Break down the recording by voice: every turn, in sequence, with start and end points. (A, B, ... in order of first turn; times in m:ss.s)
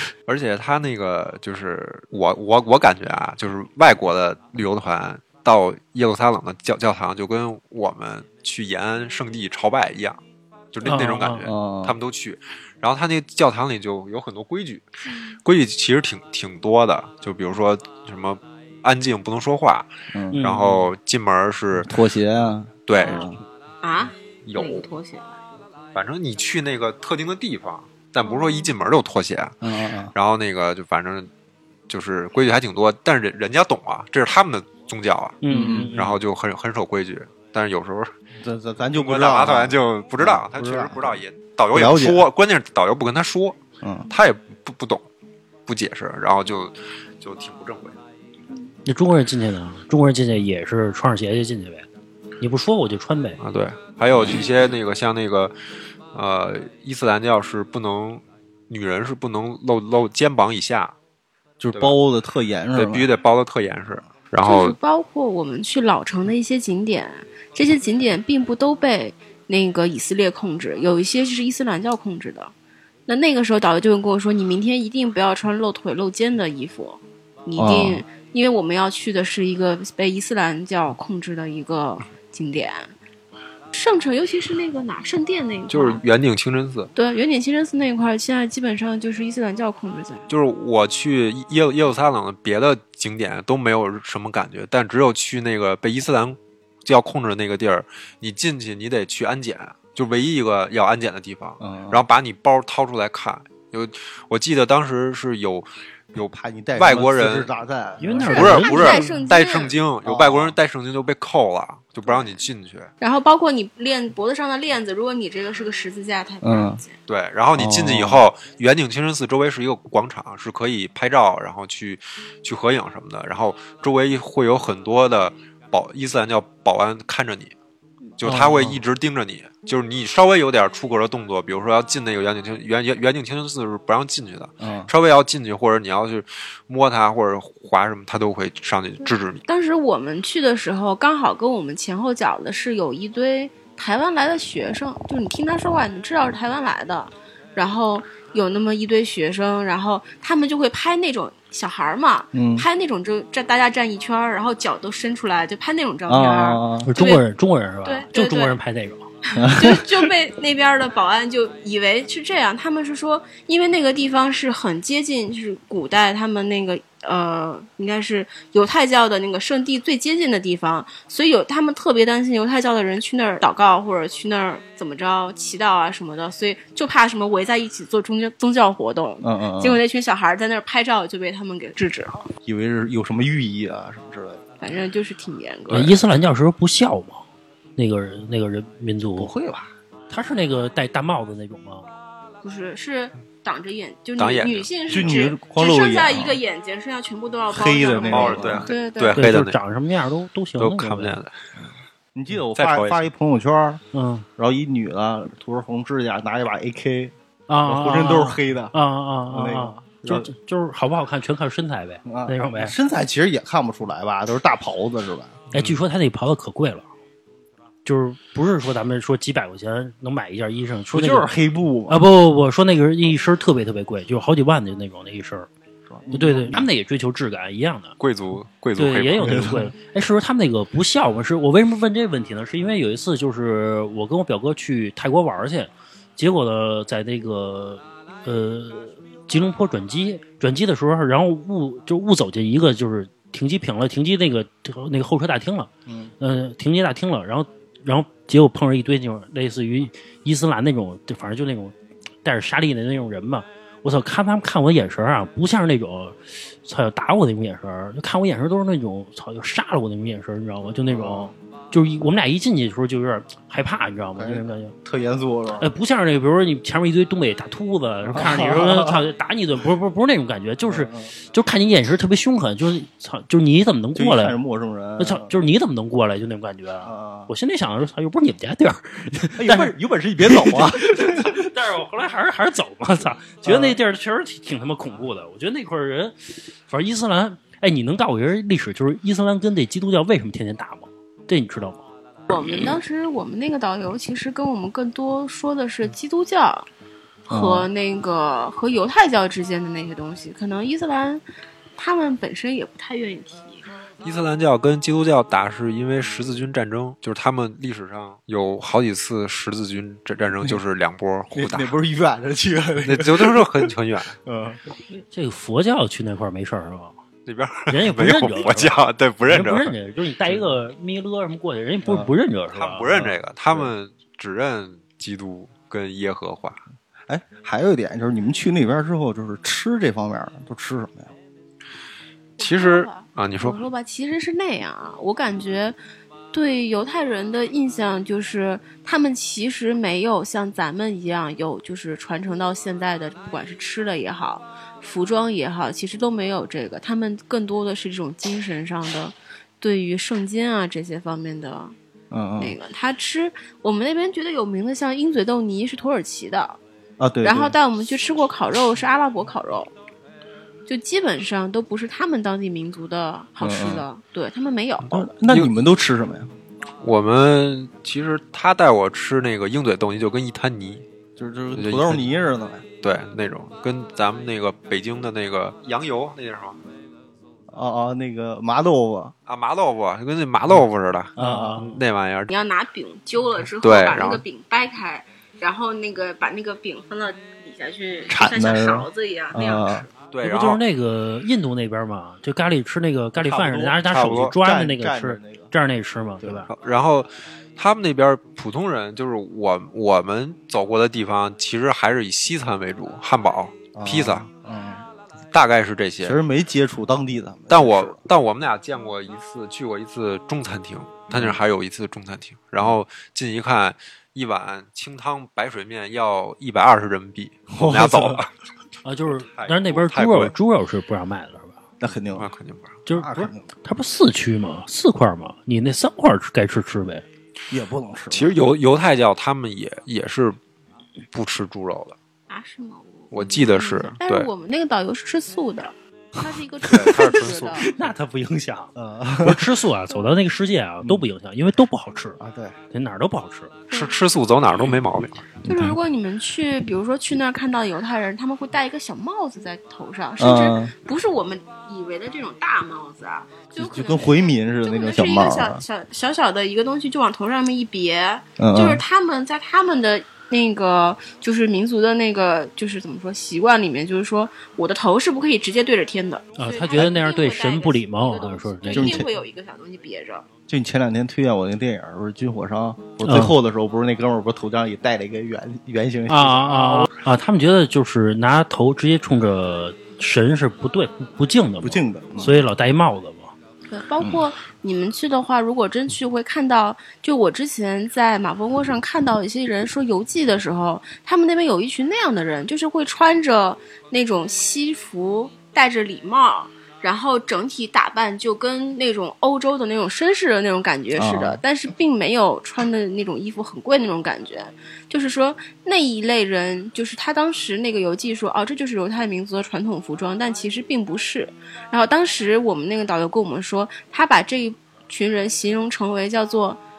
0:00.3-0:10.2 A
0:10.7-0:14.8 A
0:10.8-0:11.5 B
0:11.4-0:12.0 C
0:15.4-0:21.9 A
0:20.1-0:20.4 C
0:20.3-0:20.9 B
0:21.8-0:23.4 C
0:22.9-0:23.3 A
0:23.0-0:23.3 D
0:23.8-0:25.4 D
0:24.4-0:24.9 A
0:25.9-0:29.6 A
0:28.2-0:28.7 D
0:29.6-0:30.1 C
0:30.1-0:31.3 A
0:31.9-0:38.1 A
0:35.4-0:36.2 B
0:35.5-0:35.9 C
0:38.4-0:41.2 C
0:38.9-0:45.0 A
0:41.7-0:42.3 C
0:43.8-0:44.1 C
0:45.7-0:48.0 A
0:48.8-0:51.9 B
0:52.4-0:53.4 B
0:53.4-0:55.5 A
0:56.1-1:00.9 A
1:01.6-1:03.1 C
1:02.7-1:04.8 A
1:04.4-1:12.5 D
1:13.1-1:22.9 D
1:17.6-1:18.0 C
1:23.7-1:26.0 D
1:25.7-1:26.9 A
1:27.0-1:30.3 D
1:30.3-1:47.5 A
1:41.6-1:42.0 C
1:46.2-1:48.7 C
1:48.0-1:49.2 B
1:48.3-1:52.9 A
1:48.3-1:49.8 D
1:50.0-1:50.6 C
1:52.1-1:52.4 D
1:53.0-1:57.0 D
1:56.4-1:56.8 C
1:57.1-2:07.5 A
1:57.5-1:58.2 C
2:08.2-2:19.4 A
2:08.2-2:08.8 C
2:14.6-2:14.9 C
2:19.0-2:37.2 D
2:32.3-2:32.6 C
2:36.1-2:36.9 C
2:36.8-2:39.1 B
2:37.8-2:38.6 D
2:39.3-3:02.2 D
2:39.3-2:39.8 C
2:59.2-2:59.8 C
3:02.4-3:04.4 C
3:04.6-3:06.0 D
3:05.7-3:07.2 B
3:07.8-3:09.3 B
3:09.2-3:09.7 C
3:10.1-3:11.9 B
3:12.4-3:19.2 D
3:14.2-3:15.2 A
3:14.9-3:16.4 C
3:17.5-3:18.7 C
3:18.0-3:19.6 A
3:19.2-3:21.2 B
3:20.6-3:21.3 A
3:22.1-3:23.8 C
3:22.6-3:23.0 A
3:23.9-3:24.2 B
3:24.4-3:27.1 C
3:27.5-3:32.7 B
3:27.6-3:28.7 C
3:29.3-3:30.3 C
3:32.0-3:35.4 C
3:35.5-3:36.8 B
3:37.8-3:41.3 B
3:40.9-3:42.0 C
3:41.9-3:45.5 B
3:45.9-3:46.7 C
3:46.1-3:47.9 B
3:48.0-3:49.4 A
3:48.8-4:24.7 B
3:49.2-3:49.7 C
4:05.8-4:06.1 C
4:20.9-4:21.3 C
4:24.2-4:25.7 C
4:25.6-4:34.4 B
4:28.0-4:29.0 C
4:30.6-4:31.1 C
4:33.9-4:35.4 C
4:35.0-4:39.7 B
4:36.8-4:37.3 C
4:39.4-4:41.4 C
4:40.2-4:51.8 B
4:43.4-4:43.8 C
4:52.3-4:56.7 D
4:57.3-5:01.2 D
4:57.3-4:57.7 C
5:01.8-5:03.6 D
5:04.0-5:11.8 A
5:11.3-5:13.7 C
5:12.8-5:14.2 A
5:14.2-5:14.6 C
5:15.1-5:16.9 B
5:17.2-5:19.7 A
5:17.7-5:22.9 B
5:21.8-5:22.1 C
5:22.5-5:26.6 A
5:22.9-5:23.7 C
5:27.1-5:31.1 C
5:32.4-5:35.8 D
5:32.4-5:33.6 A
5:36.3-5:51.7 D
5:52.1-5:52.6 C
5:52.4-5:56.6 D
5:57.0-5:57.5 C
5:57.2-5:59.7 D
6:00.7-6:05.0 D
6:03.4-6:03.8 C
6:04.9-6:06.3 C
6:05.2-6:05.5 A
6:06.8-6:10.8 A
6:11.2-6:12.6 C
6:11.5-6:12.1 A
6:12.8-6:16.6 A
6:17.5-6:19.1 C
6:19.3-6:22.3 A
6:21.2-6:21.7 C
6:21.2-6:21.8 B
6:22.3-6:29.9 D
6:23.6-6:24.2 A
6:28.1-6:29.8 C
6:30.1-6:30.6 A
6:30.2-6:36.5 B
6:33.2-6:35.5 C
6:33.9-6:34.3 A
6:36.2-6:36.5 C
6:36.5-6:44.2 A
6:43.7-6:44.8 C
6:45.3-6:46.2 A
6:46.0-6:48.0 C
6:47.5-6:58.3 A
6:51.1-6:51.4 C
6:57.5-6:58.2 C
6:58.8-7:01.6 B
6:59.1-7:00.3 A
7:01.8-7:02.3 C
7:02.2-7:02.8 A
7:02.8-7:07.0 B
7:02.9-7:03.5 C
7:07.5-7:08.4 C
7:08.1-7:10.4 A
7:11.1-7:12.0 A
7:12.3-7:17.7 D
7:13.1-7:14.3 A
7:16.6-7:17.7 A
7:17.6-7:18.7 B
7:18.7-7:19.5 C
7:19.2-7:22.2 B
7:22.2-7:22.6 C
7:22.7-7:23.5 B
7:23.7-7:24.0 D
7:23.7-7:25.3 A
7:25.4-7:25.8 C
7:25.4-7:50.2 D
7:30.2-7:30.7 C
7:33.6-7:35.6 C
7:38.4-7:38.8 C
7:46.4-7:49.0 B
7:48.7-7:49.1 C
7:50.5-7:56.9 C
7:53.0-7:53.4 B
7:56.1-8:03.3 B
8:01.6-8:02.4 C
8:03.7-8:36.6 D
8:20.9-8:21.4 C